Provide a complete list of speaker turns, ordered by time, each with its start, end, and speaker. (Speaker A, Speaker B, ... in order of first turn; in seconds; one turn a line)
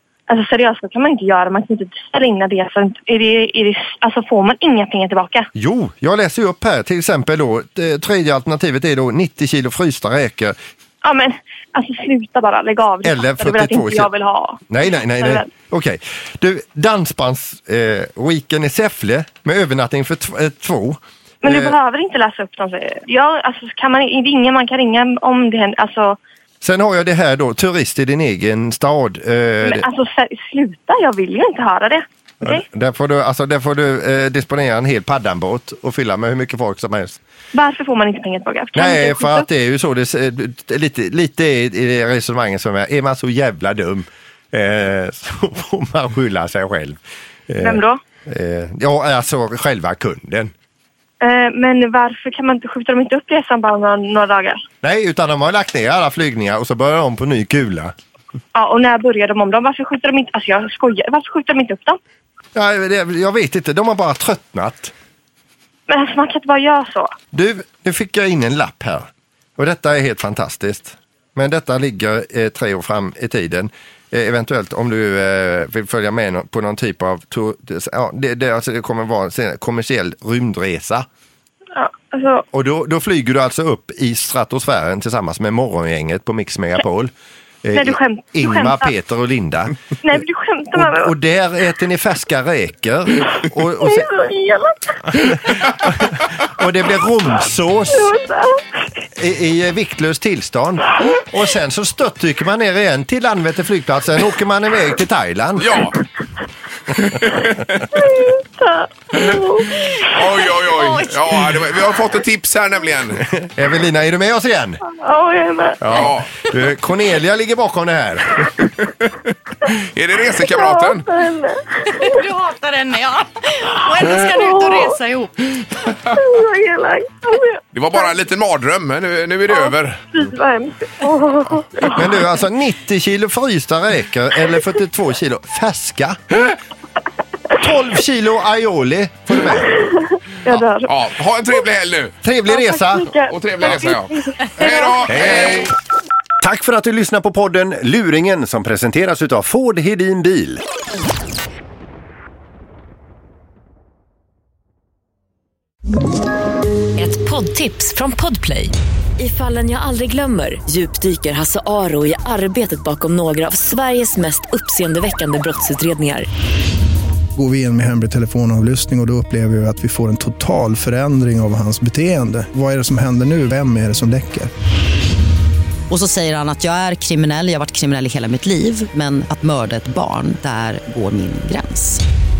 Speaker A: 0.3-5.5
Speaker B: 5.5-10.6
Speaker A: 11.0-15.5
Speaker B: 13.0-14.1
Speaker B: 14.7-21.8
Speaker A: 21.4-26.2
Speaker B: 26.6-29.9
Speaker A: 29.6-32.6
Speaker B: 32.4-37.2
Speaker A: 37.5-39.5
Speaker B: 38.7-47.0
Speaker B: 47.5-50.5
Speaker A: 47.6-48.0
Speaker A: 51.2-54.6
Speaker B: 54.8-57.9
Speaker A: 58.5-62.0
Speaker B: 62.5-64.9
Speaker A: 65.9-67.1
Speaker B: 67.3-81.0
Speaker A: 81.7-82.4
Speaker B: 82.5-89.8
Speaker A: 87.7-88.9
Speaker A: 90.0-91.1
Speaker B: 90.7-94.1
Speaker A: 93.8-95.2
Speaker B: 95.8-98.1
Speaker A: 97.9-98.8
Speaker B: 99.2-105.8
Speaker C: 105.6-105.9
Speaker C: 107.0-107.6
Speaker A: 107.9-110.1
Speaker C: 110.0-113.2
Speaker D: 110.8-111.6
Speaker B: 113.3-114.8
Speaker A: 114.9-115.9
Speaker B: 115.8-118.5
Speaker C: 115.8-116.4
Speaker C: 119.8-121.0
Speaker A: 120.5-122.2
Speaker D: 122.0-125.3
Speaker A: 124.0-125.0
Speaker A: 126.1-128.1
Speaker C: 127.7-130.0
Speaker A: 129.5-132.0
Speaker B: 131.8-136.2
Speaker B: 137.5-139.7
Speaker A: 139.9-140.9
Speaker C: 140.8-142.1
Speaker B: 142.2-143.1
Speaker A: 142.5-145.1
Speaker C: 143.3-145.7
Speaker E: 146.4-150.6
Speaker F: 157.0-166.3
Speaker G: 167.3-174.5
Speaker H: 175.9-182.0